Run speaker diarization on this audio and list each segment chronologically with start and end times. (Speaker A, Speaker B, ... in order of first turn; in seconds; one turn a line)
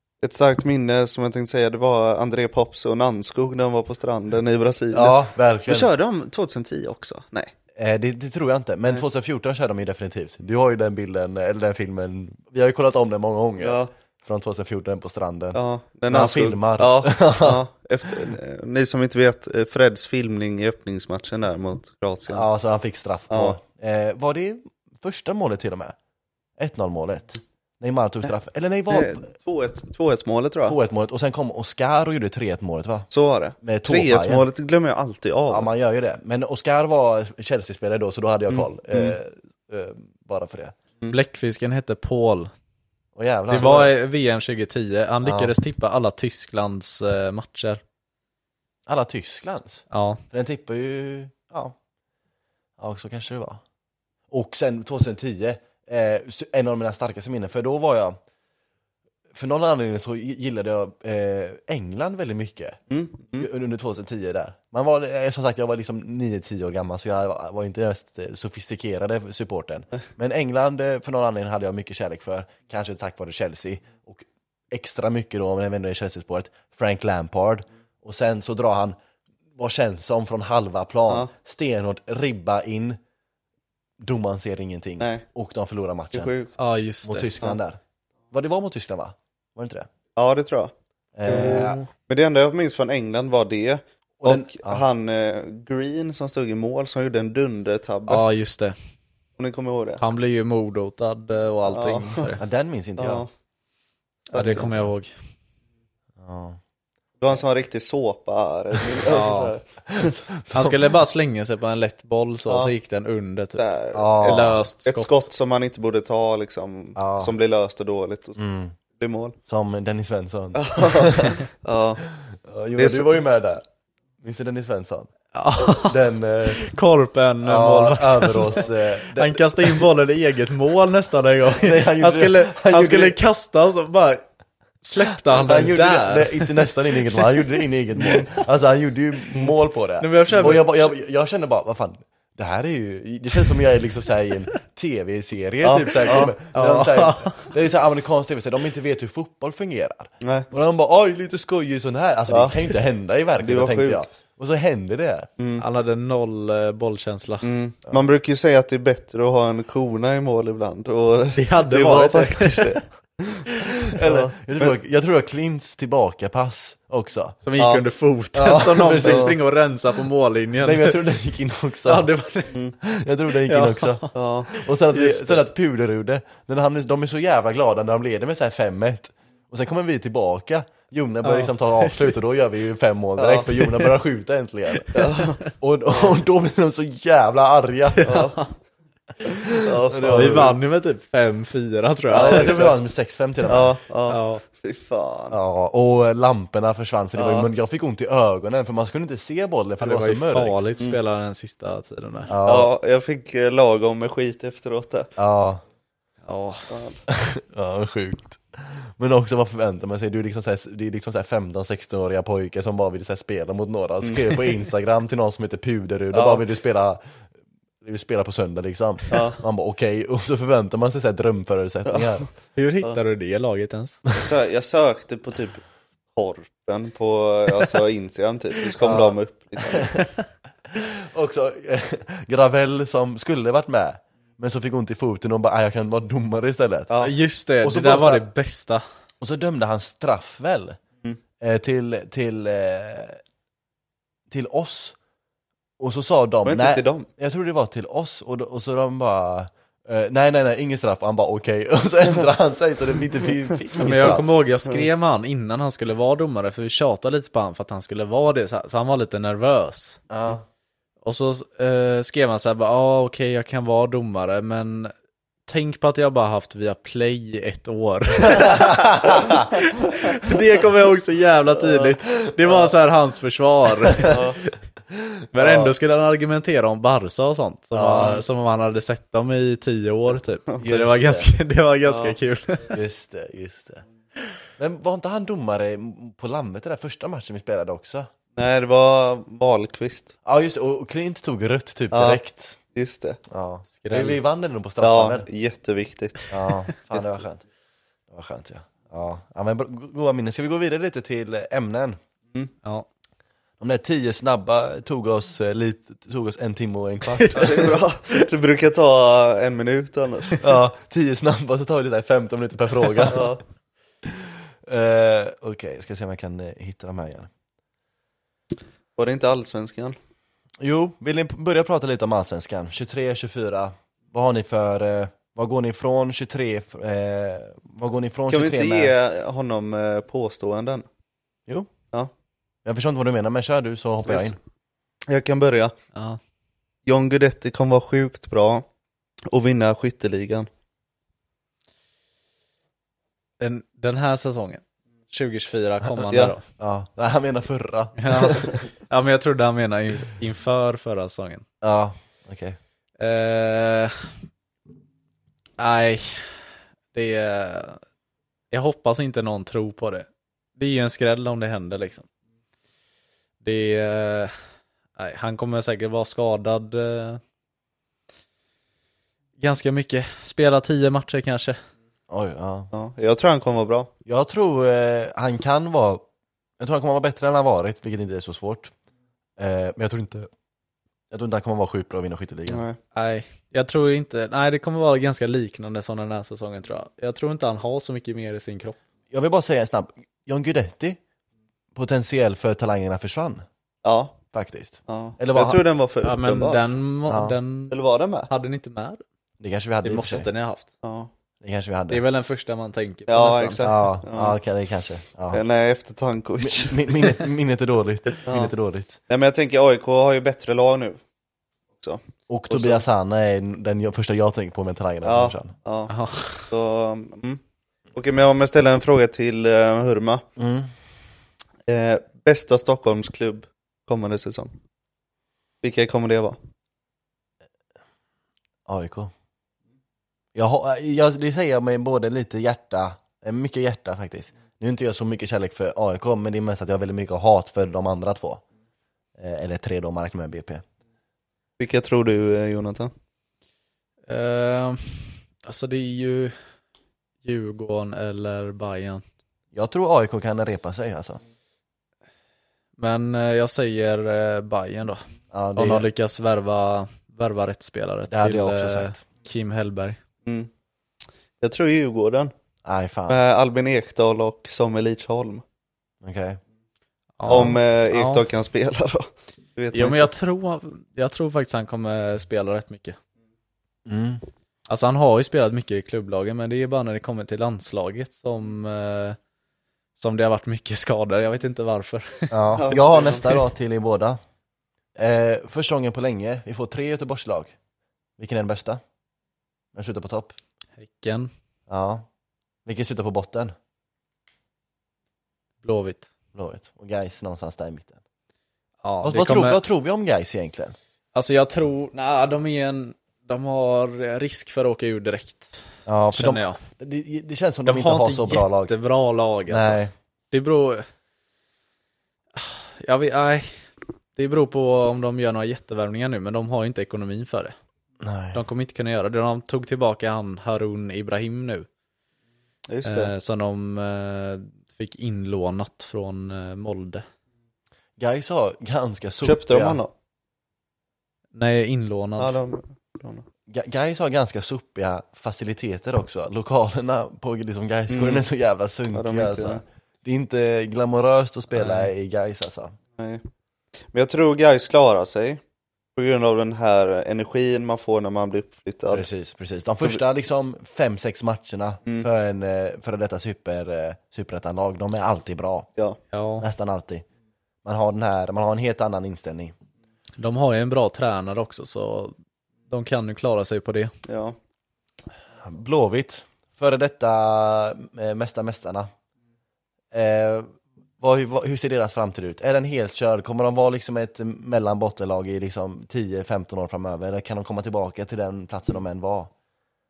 Speaker A: 0.2-7.5
Speaker B: 4.9-5.9
Speaker B: 7.7-18.3
Speaker A: 13.6-13.9
Speaker A: 15.5-22.5
Speaker B: 22.3-25.9
Speaker A: 23.3-23.6
Speaker B: 26.6-29.3
Speaker A: 28.9-30.8
Speaker B: 30.6-33.1
Speaker A: 33.1-35.7
Speaker B: 33.6-34.4
Speaker B: 35.5-40.8
Speaker A: 38.5-39.2
Speaker C: 41.1-42.5
Speaker B: 43.1-43.9
Speaker C: 43.5-47.8
Speaker A: 43.5-43.9
Speaker B: 45.2-45.5
Speaker B: 48.9-51.8
Speaker C: 49.9-50.2
Speaker B: 52.8-53.6
Speaker B: 54.3-58.2
Speaker B: 59.3-62.8
Speaker A: 62.9-63.5
Speaker B: 63.3-79.0
Speaker B: 79.5-83.0
Speaker B: 84.0-86.3
Speaker A: 85.0-85.2
Speaker A: 86.1-86.5
Speaker C: 86.6-87.3
Speaker B: 87.0-87.8
Speaker B: 88.3-89.9
Speaker A: 90.2-90.7
Speaker B: 91.1-91.8
Speaker C: 91.2-91.8
Speaker A: 91.2-98.2
Speaker B: 94.2-94.8
Speaker C: 98.1-98.7
Speaker A: 99.4-100.0
Speaker C: 100.0-102.4
Speaker A: 101.7-102.3
Speaker B: 102.4-103.2
Speaker A: 103.0-103.3
Speaker C: 104.3-105.1
Speaker A: 104.3-104.8
Speaker B: 106.2-106.6
Speaker A: 107.2-110.2
Speaker C: 109.0-109.5
Speaker B: 109.9-110.9
Speaker C: 110.5-113.7
Speaker A: 113.6-118.4
Speaker B: 113.9-114.6
Speaker C: 114.2-115.2
Speaker B: 117.0-117.3
Speaker B: 118.4-118.8
Speaker A: 119.0-119.4
Speaker B: 119.5-121.4
Speaker A: 120.5-122.0
Speaker B: 122.1-123.6
Speaker A: 122.8-123.1
Speaker B: 124.2-125.1
Speaker C: 125.3-126.0
Speaker B: 125.7-126.6
Speaker C: 126.5-134.2
Speaker B: 127.4-129.8
Speaker B: 131.6-133.2
Speaker C: 134.8-137.4
Speaker B: 135.3-155.3
Speaker C: 140.0-140.9
Speaker A: 145.6-146.3
Speaker C: 146.2-147.5
Speaker A: 150.2-150.5
Speaker A: 152.3-152.5
Speaker A: 153.4-154.1
Speaker A: 155.4-155.6
Speaker C: 155.6-157.4
Speaker A: 157.4-164.7
Speaker C: 161.3-162.8
Speaker B: 163.6-167.4
Speaker C: 167.4-171.0
Speaker A: 167.6-167.8
Speaker B: 168.3-169.4
Speaker A: 169.0-169.3
Speaker B: 170.6-172.1
Speaker C: 171.8-172.6
Speaker B: 172.8-188.2
Speaker C: 173.4-174.1
Speaker A: 174.1-174.5
Speaker C: 174.9-175.4
Speaker C: 181.2-182.1
Speaker A: 183.2-183.7
Speaker C: 184.9-185.3
Speaker A: 184.9-186.2
Speaker C: 188.0-188.5
Speaker A: 188.0-188.4
Speaker B: 189.2-190.6
Speaker A: 189.4-190.5
Speaker C: 190.1-192.7
Speaker A: 192.1-192.7
Speaker B: 192.1-193.8
Speaker A: 193.5-195.4
Speaker C: 194.1-194.4
Speaker B: 195.3-200.6
Speaker A: 197.2-197.5
Speaker C: 199.8-202.3
Speaker B: 202.3-202.7
Speaker A: 202.4-205.1
Speaker B: 205.2-205.6
Speaker C: 206.2-206.7
Speaker A: 206.7-207.0
Speaker B: 207.1-217.0
Speaker A: 214.0-214.5
Speaker A: 216.1-216.4
Speaker B: 217.8-222.3
Speaker A: 219.1-219.4
Speaker C: 222.5-224.0
Speaker A: 224.1-230.0
Speaker B: 228.8-229.9
Speaker B: 230.7-237.0
Speaker A: 236.9-237.2
Speaker C: 237.0-238.8
Speaker B: 237.6-238.2
Speaker B: 239.2-240.8
Speaker B: 241.4-243.2
Speaker B: 244.3-244.9
Speaker B: 245.8-254.2
Speaker A: 246.4-247.1
Speaker C: 253.8-260.0
Speaker B: 260.1-260.4
Speaker C: 261.0-264.9
Speaker C: 265.5-274.5
Speaker B: 268.2-269.5
Speaker B: 273.8-274.2
Speaker A: 274.0-274.4
Speaker B: 274.9-275.7
Speaker C: 275.3-282.8
Speaker B: 277.7-278.2
Speaker B: 280.6-281.3
Speaker A: 281.8-282.2
Speaker B: 282.7-283.8
Speaker B: 284.6-288.1
Speaker A: 288.4-290.1
Speaker B: 290.2-292.6
Speaker A: 291.9-292.2
Speaker A: 292.7-293.2
Speaker B: 293.3-295.3
Speaker C: 293.8-294.2
Speaker A: 294.8-296.3
Speaker B: 296.3-297.4
Speaker B: 298.1-302.0
Speaker B: 303.6-307.8
Speaker C: 307.1-307.6
Speaker A: 307.3-310.5
Speaker B: 310.4-313.3
Speaker A: 313.0-313.4
Speaker B: 314.0-317.3
Speaker A: 318.9-319.9
Speaker B: 320.6-328.9
Speaker A: 328.3-330.9
Speaker B: 332.6-334.4
Speaker A: 334.0-334.3
Speaker A: 335.1-335.7
Speaker A: 336.9-338.6
Speaker A: 339.3-340.5
Speaker C: 343.4-346.4
Speaker B: 346.6-348.6
Speaker C: 348.0-351.4
Speaker B: 351.6-352.6
Speaker C: 353.0-354.0
Speaker C: 355.6-356.4
Speaker C: 356.9-357.8
Speaker C: 358.5-362.1
Speaker C: 363.4-364.3
Speaker C: 365.0-367.2
Speaker C: 369.4-371.6
Speaker B: 372.1-372.7
Speaker A: 372.7-373.9
Speaker B: 374.1-376.0
Speaker B: 376.6-378.7
Speaker B: 379.4-380.3
Speaker B: 381.1-382.6
Speaker A: 382.5-382.8
Speaker C: 382.9-388.8
Speaker B: 389.1-391.0
Speaker B: 391.7-393.4
Speaker A: 393.8-394.2
Speaker B: 394.3-395.6
Speaker A: 394.9-396.6
Speaker C: 396.0-397.8
Speaker B: 397.1-397.4
Speaker A: 397.7-398.3
Speaker C: 398.3-399.0
Speaker B: 399.4-400.3
Speaker C: 399.8-400.6
Speaker A: 400.8-401.1
Speaker B: 401.4-402.0
Speaker C: 401.9-403.7
Speaker A: 403.1-404.4
Speaker B: 403.6-405.4
Speaker A: 405.3-407.2
Speaker B: 406.4-409.0
Speaker A: 408.2-408.5
Speaker A: 409.1-411.0
Speaker A: 411.8-412.8
Speaker B: 412.3-415.5
Speaker A: 415.0-415.9
Speaker C: 415.9-416.5
Speaker A: 416.5-417.4
Speaker A: 417.9-420.2
Speaker B: 420.4-420.7
Speaker A: 421.7-424.5
Speaker A: 425.6-426.4
Speaker B: 428.7-429.1
Speaker B: 430.3-438.4
Speaker B: 439.2-440.6
Speaker A: 441.6-442.9
Speaker C: 444.1-446.3
Speaker C: 447.2-449.0
Speaker B: 449.5-451.2
Speaker C: 452.8-455.0
Speaker B: 455.3-455.9
Speaker C: 455.6-460.0
Speaker B: 458.1-459.0
Speaker A: 460.2-460.5
Speaker A: 461.4-462.3
Speaker B: 462.6-463.2
Speaker A: 463.1-465.4
Speaker B: 466.0-466.4
Speaker C: 467.2-468.2
Speaker A: 467.3-470.1
Speaker C: 469.7-473.0
Speaker B: 473.9-474.2
Speaker C: 474.7-479.2
Speaker C: 480.0-482.4
Speaker B: 482.3-484.2
Speaker A: 482.6-483.4
Speaker B: 484.9-487.5
Speaker B: 488.2-488.8
Speaker B: 489.7-490.4
Speaker C: 490.8-491.3
Speaker B: 491.7-492.1
Speaker B: 492.6-493.5
Speaker C: 495.6-496.1
Speaker B: 496.3-498.0
Speaker C: 498.8-499.6
Speaker B: 499.0-500.8
Speaker C: 501.1-506.6
Speaker B: 505.9-508.7
Speaker C: 507.6-510.9
Speaker B: 509.5-509.9
Speaker C: 512.4-513.5
Speaker C: 514.1-517.5
Speaker B: 518.0-518.4
Speaker C: 518.3-521.7
Speaker A: 522.7-523.1
Speaker C: 522.8-527.0
Speaker B: 528.0-529.8
Speaker A: 529.2-529.9
Speaker C: 531.3-532.4
Speaker A: 532.2-533.2
Speaker B: 533.5-542.8
Speaker A: 537.9-538.2
Speaker A: 538.9-539.6
Speaker C: 541.5-541.9
Speaker A: 543.0-543.2
Speaker A: 543.9-545.4
Speaker A: 546.0-549.1
Speaker B: 548.9-555.7
Speaker C: 556.1-556.5
Speaker B: 556.4-557.0
Speaker B: 557.6-559.5
Speaker C: 560.2-562.1
Speaker C: 562.7-563.9
Speaker A: 564.0-564.4
Speaker B: 565.4-568.9
Speaker B: 569.9-579.3